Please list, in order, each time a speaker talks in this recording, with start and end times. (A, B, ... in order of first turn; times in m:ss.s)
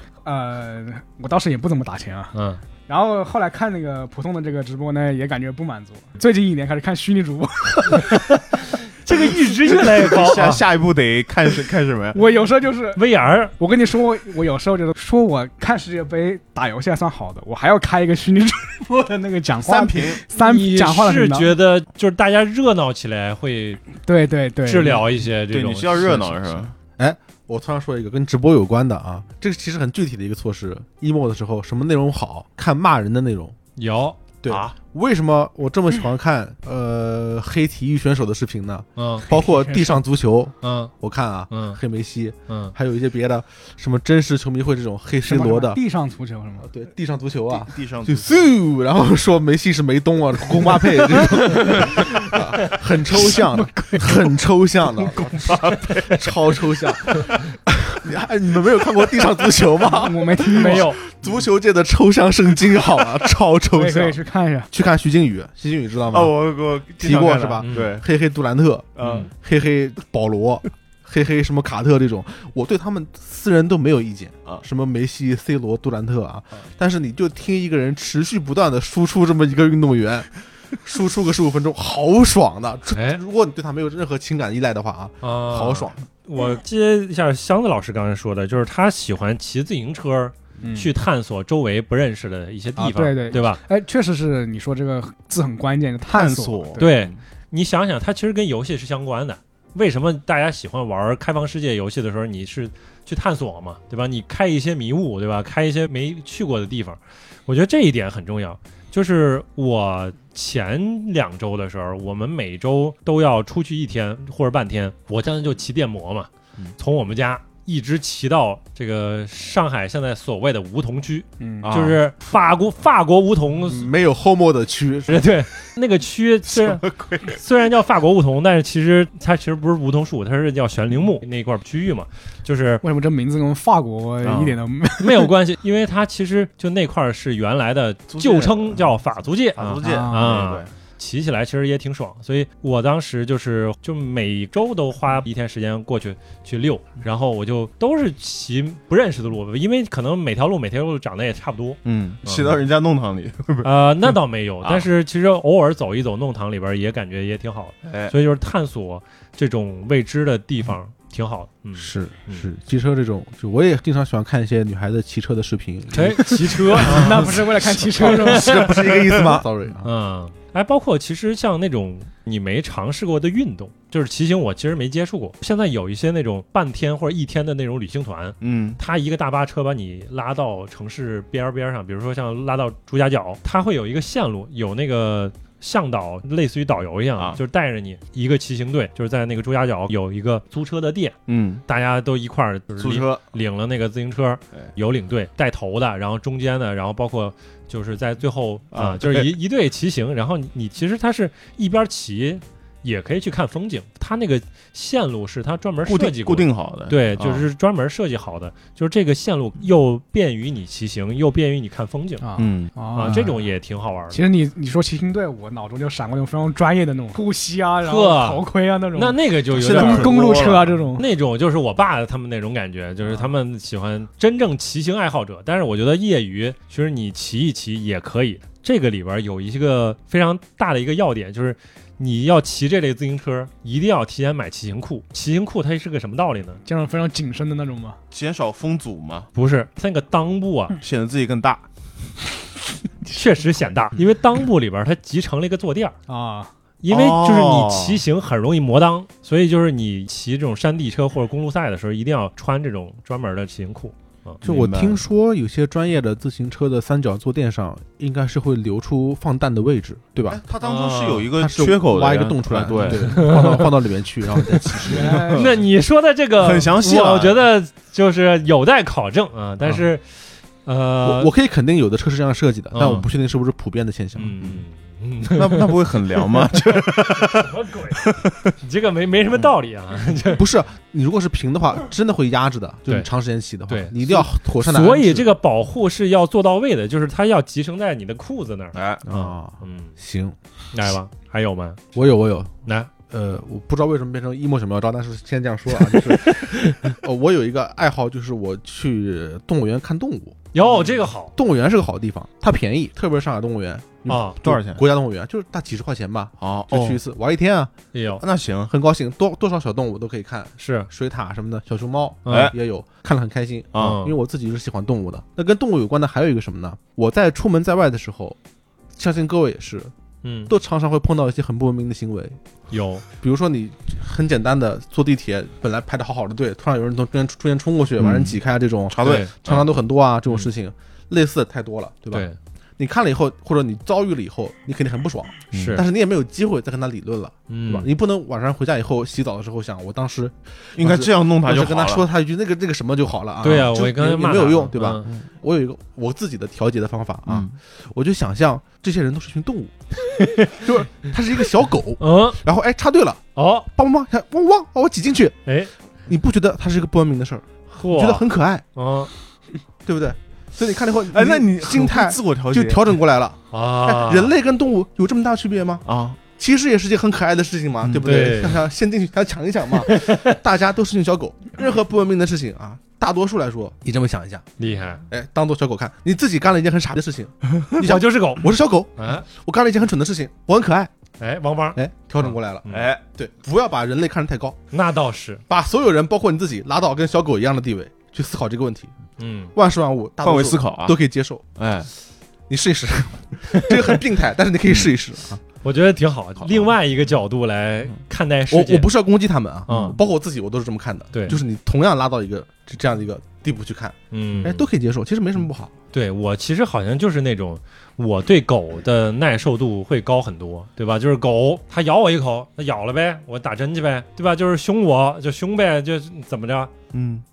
0:00.2-0:02.3 A
0:02.3-0:02.6 B
0:02.9-0:08.2 A
0:08.0-0:10.6 B
0:09.1-0:09.4 A
0:09.7-0:12.2 C
0:12.1-0:13.0 A
0:13.0-0:13.5 B
0:13.6-0:21.5 A
0:19.7-0:20.2 C
0:20.3-0:23.8 B
0:24.1-0:25.1 A
0:24.6-0:26.6 B
0:25.5-0:26.7 C
0:27.0-0:33.6 D
0:33.8-0:34.2 B
0:34.4-0:45.8 D
0:34.5-0:34.8 C
0:39.0-0:39.3 B
0:39.3-0:40.0 A
0:40.6-0:40.9 B
0:41.5-0:41.8 B
0:42.5-0:42.7 B
0:45.2-0:46.7 A
0:46.6-0:55.5 D
0:47.5-0:48.5 C
0:51.4-0:52.0 A
0:53.2-0:54.2 A
0:55.2-0:56.2 C
0:56.1-1:04.2 D
0:59.9-1:00.9 A
1:00.5-1:01.0 B
1:03.7-1:04.7 A
1:04.7-1:06.3 D
1:06.1-1:08.0 C
1:07.0-1:26.0 D
1:07.6-1:08.0 B
1:09.0-1:09.3 C
1:22.9-1:23.2 B
1:25.2-1:33.6 B
1:30.6-1:30.9 A
1:32.8-1:36.9 A
1:36.1-1:37.2 C
1:36.8-2:03.9 B
2:01.4-2:01.7 A
2:01.6-2:02.0 C
2:03.7-2:05.3 D
2:05.1-2:12.8 B
2:06.5-2:07.4 C
2:12.8-2:15.3 A
2:14.2-2:14.6 C
2:15.0-2:32.6 B
2:18.1-2:18.8 C
2:19.6-2:20.7 C
2:19.8-2:20.4 A
2:31.8-2:33.7 C
2:33.6-2:42.5 B
2:37.8-2:38.2 C
2:41.8-2:49.9 D
2:45.9-2:49.2 B
2:46.6-2:48.6 A
2:49.8-3:32.2 B
2:58.4-2:58.8 C
3:11.3-3:11.6 C
3:12.8-3:13.2 C
3:18.7-3:19.3 C
3:25.9-3:27.4 C
3:32.2-3:33.5 A
3:32.4-3:32.7 C
3:32.9-3:34.2 B
3:34.1-3:41.0 A
3:37.8-3:56.6 B
3:39.5-3:40.8 C
3:56.7-3:58.0 A
3:58.1-3:59.3 C
3:59.4-4:00.8 B
4:00.8-4:01.6 C
4:03.1-4:06.0 B
4:06.1-4:06.5 A
4:06.8-4:14.4 B
4:06.9-4:08.0 C
4:14.4-4:15.0 C
4:14.4-4:20.4 D
4:20.3-4:23.3 C
4:20.6-4:21.3 B
4:21.4-4:25.3 D
4:22.8-4:23.7 B
4:24.6-4:31.3 B
4:24.9-4:25.5 A
4:26.4-4:27.4 C
4:31.0-4:34.3 D
4:32.7-4:33.1 B
4:34.2-4:40.5 B
4:35.3-4:38.4 C
4:40.3-4:45.3 D
4:43.7-4:49.9 B
4:48.7-4:49.0 C
4:49.1-4:50.4 D
4:50.7-4:51.9 B
4:52.0-5:00.5 D
5:00.5-5:01.3 B
5:01.4-5:07.7 D
5:04.1-5:04.4 B
5:04.4-5:04.8 C
5:06.4-5:07.0 C
5:07.9-5:08.2 B
5:08.2-5:08.7 C
5:08.7-5:18.4 D
5:10.6-5:10.9 B
5:12.3-5:12.5 B
5:12.3-5:12.6 C
5:13.7-5:14.0 C
5:13.8-5:14.2 B
5:19.0-5:19.9 D
5:20.2-5:20.5 B
5:20.5-5:22.4 D
5:22.7-5:23.0 B
5:23.2-5:49.8 D
5:28.0-5:28.4 C
5:28.9-5:29.7 C
5:29.0-5:29.3 B
5:32.1-5:32.4 B
5:35.5-5:35.8 C
5:35.5-5:35.8 B
5:37.5-5:37.9 B
5:40.8-5:42.0 C
5:43.4-5:45.1 B
5:47.3-5:47.6 C
5:50.2-5:50.5 B
5:50.4-5:53.2 D
5:52.0-5:52.4 B
5:53.4-5:53.7 B
5:53.7-5:55.4 D
5:55.5-5:55.7 B
5:56.1-5:58.6 D
5:57.7-5:59.1 B
5:59.8-6:05.8 D
6:01.1-6:02.8 C
6:03.5-6:04.3 B
6:05.8-6:06.2 C
6:06.4-6:14.5 D
6:08.0-6:08.6 B
6:09.8-6:10.4 B
6:14.6-6:15.0 B
6:15.1-6:20.9 D
6:17.8-6:19.3 B
6:21.2-6:22.9 B
6:21.8-6:24.6 D
6:22.7-6:23.0 C
6:24.7-6:25.4 B
6:25.5-6:28.9 D
6:29.2-6:29.5 B
6:29.5-6:31.4 D
6:30.2-6:31.0 C
6:31.6-6:31.9 C
6:32.5-6:35.4 D
6:33.5-6:33.9 B
6:35.6-6:38.9 B
6:36.4-6:36.7 C
6:38.5-6:45.7 D
6:39.7-6:40.0 B
6:39.7-6:40.0 C
6:41.1-6:41.4 B
6:44.1-6:44.7 B
6:45.9-6:56.7 B
6:56.9-6:57.2 C